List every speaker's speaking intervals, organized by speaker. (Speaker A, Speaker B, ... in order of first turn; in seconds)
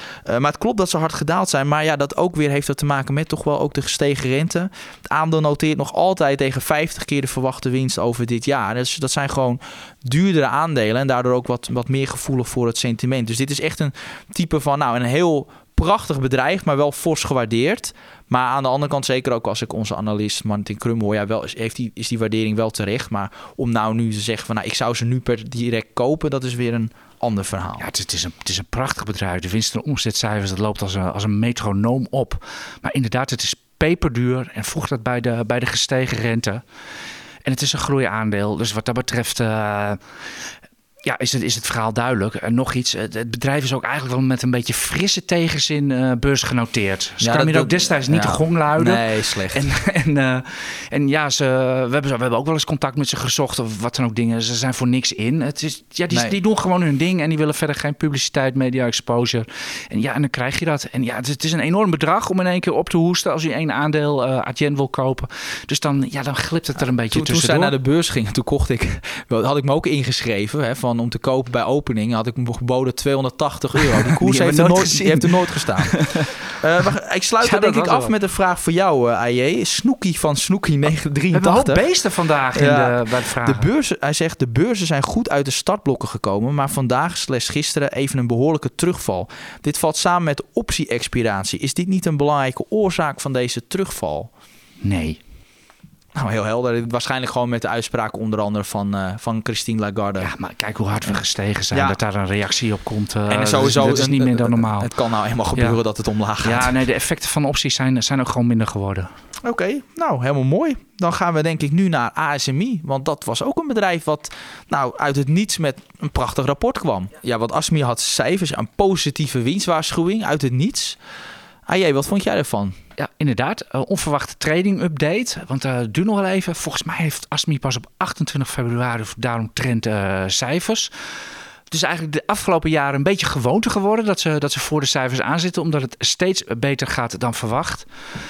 Speaker A: 0.3-27.9, 47.2-49.7, 67.1-81.9, 82.5-94.3, 96.2-100.3, 101.7-102.0, 103.3-106.8, 109.4-121.0, 121.7-122.8
Speaker B: 27.8-36.6, 37.5-40.0, 41.0-67.7, 74.2-76.3, 77.4-78.1, 81.3-83.7, 94.8-95.2, 100.2-104.9, 106.4-109.1, 123.0-131.2, 131.7-137.9